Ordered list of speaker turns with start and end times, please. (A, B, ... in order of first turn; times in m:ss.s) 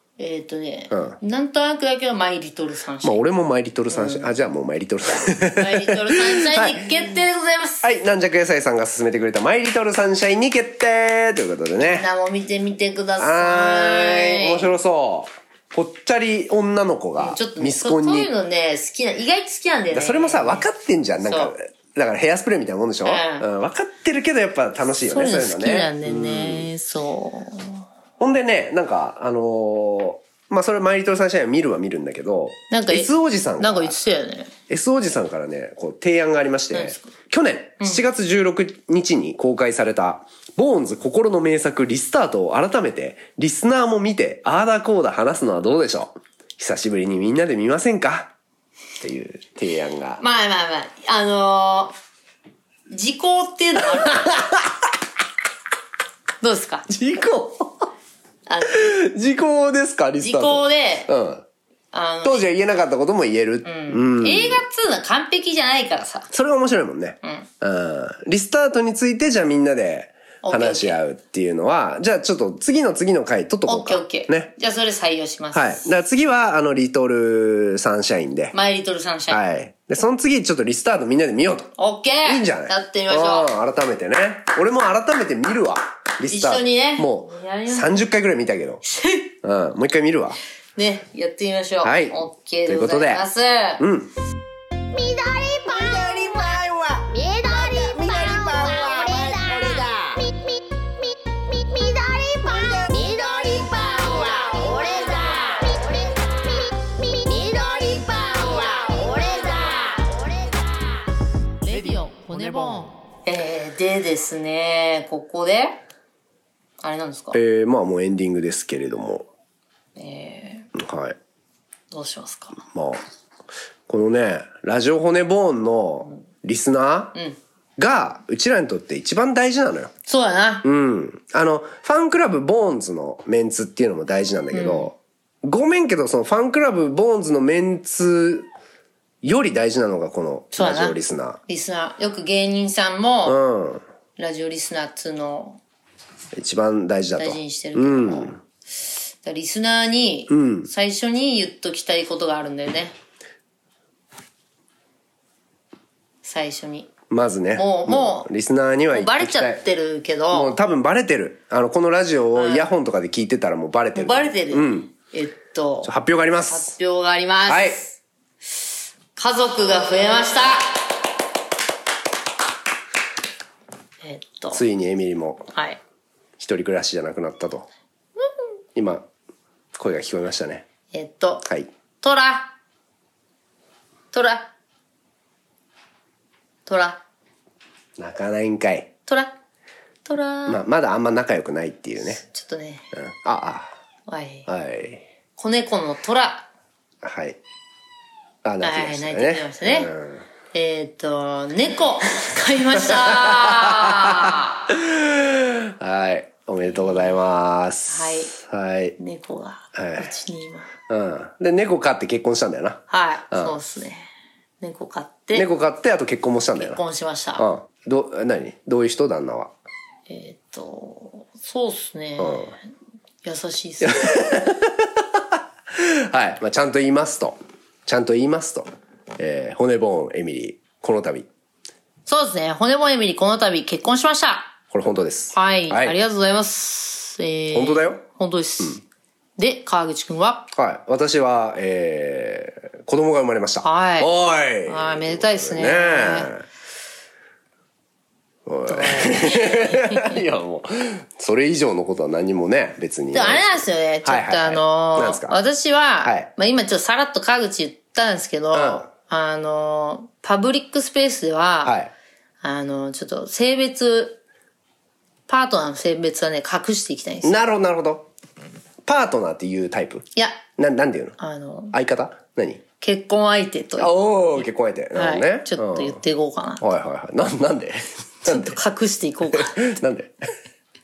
0:00.2-0:03.2 A
0:00.9-0:01.2 B
0:03.0-0:06.9 B
0:03.9-0:04.3 A
0:05.2-0:07.8 A
0:07.8-0:12.1 B
0:11.8-0:14.7 A
0:13.2-0:18.3 B
0:17.2-0:20.7 A
0:19.9-0:26.7 B
0:21.2-0:21.5 A
0:23.0-0:23.4 A
0:25.0-0:27.8 A
0:28.2-0:33.9 B
0:32.7-0:34.5 A
0:34.7-0:48.3 B
0:36.7-0:37.0 A
0:37.8-0:38.1 A
0:49.0-0:50.2 B
0:50.2-0:51.9 A
0:52.9-0:54.5 A
0:54.0-0:54.6 B
0:56.4-0:56.8 A
0:56.9-0:57.9 B
0:58.5-0:58.9 A
0:58.7-1:01.4 B
1:00.2-1:01.1 A
1:01.9-1:02.4 A
1:02.2-1:04.6 B
1:03.6-1:06.3 A
1:06.3-1:14.5 B
1:10.4-1:11.0 A
1:13.6-1:15.8 A
1:15.5-1:18.5 B
1:18.5-1:19.4 A
1:19.3-1:21.7 B
1:21.8-1:23.5 A
1:22.2-1:28.8 B
1:26.3-1:28.0 A
1:28.8-1:29.3 A
1:29.4-1:30.4 B
1:30.8-1:33.8 A
1:31.8-1:33.2 B
1:33.8-1:34.1 B
1:34.9-1:40.6 C
1:36.5-1:36.9 B
1:37.8-1:40.0 B
1:41.5-1:50.8 C
1:51.6-1:55.8 A
1:56.8-1:57.4 A
1:57.3-1:59.2 B
2:00.0-2:00.7 A
2:00.7-2:01.2 B
2:01.9-2:02.6 A
2:02.7-2:03.0 B
2:03.9-2:07.1 B
2:07.8-2:09.9 B
2:10.0-2:10.7 A
2:10.6-2:18.5 B
2:14.5-2:14.9 A
2:19.2-2:21.4 B
2:20.5-2:23.4 A
2:23.2-2:23.8 B
2:24.2-2:25.6 A
2:26.3-2:28.4 B
2:27.2-2:32.9 A
2:30.3-2:30.7 B
2:36.2-2:36.9 A
2:37.1-2:39.6 B
2:37.5-2:38.3 A
2:38.9-2:40.5 A
2:40.3-2:44.9 B
2:42.3-2:42.6 A
2:43.9-2:45.9 A
2:45.8-2:46.7 B
2:46.5-2:47.9 A
2:47.5-2:47.8 B
2:49.2-2:50.9 A
2:54.0-2:54.6 A
2:54.5-2:55.5 B
2:55.5-2:55.8 A
2:56.4-2:57.7 B
2:58.8-2:59.1 B
2:59.7-3:00.6 B
3:00.9-3:01.5 A
3:02.0-3:02.5 A
3:04.1-3:04.5 A
3:06.6-3:07.0 A
3:08.0-3:08.9 B
3:09.1-3:09.3 A
3:10.0-3:10.6 A
3:10.5-3:12.2 B
3:12.2-3:12.8 A
3:12.9-3:13.7 B
3:14.1-3:14.5 A
3:14.5-3:15.0 B
3:15.4-3:16.5 A
3:17.0-3:17.4 B
3:18.4-3:20.2 B
3:18.6-3:19.9 A
3:20.5-3:24.6 A
3:22.7-3:29.0 B
3:27.9-3:28.3 A
3:29.0-3:30.7 A
3:29.7-3:30.1 B
3:30.9-3:33.5 B
3:32.9-3:34.1 A
3:34.6-3:35.5 A
3:35.3-3:36.8 B
3:36.6-3:37.4 A
3:37.4-3:39.5 B
3:40.1-3:42.6 A
3:42.2-3:42.5 B
3:43.2-3:44.3 A
3:43.8-3:51.3 B
3:52.0-3:54.5 A
3:54.7-3:56.0 B
3:55.3-3:58.8 A
3:57.5-3:58.0 B
3:59.4-4:00.5 A
4:00.5-4:06.4 B
4:03.6-4:04.1 A
4:04.6-4:06.3 A
4:08.4-4:15.4 B
4:08.6-4:10.2 A
4:13.1-4:21.7 A
4:18.5-4:18.9 B
4:21.6-4:21.9 B
4:22.4-4:24.2 A
4:25.3-4:27.3 A
4:27.2-4:28.1 B
4:28.8-4:31.2 B
4:30.1-4:30.4 A
4:31.2-4:31.7 A
4:31.7-4:32.6 B
4:32.8-4:36.7 A
4:33.8-4:36.0 B
4:36.6-4:38.6 B
4:38.2-4:39.6 A
4:39.3-4:40.3 B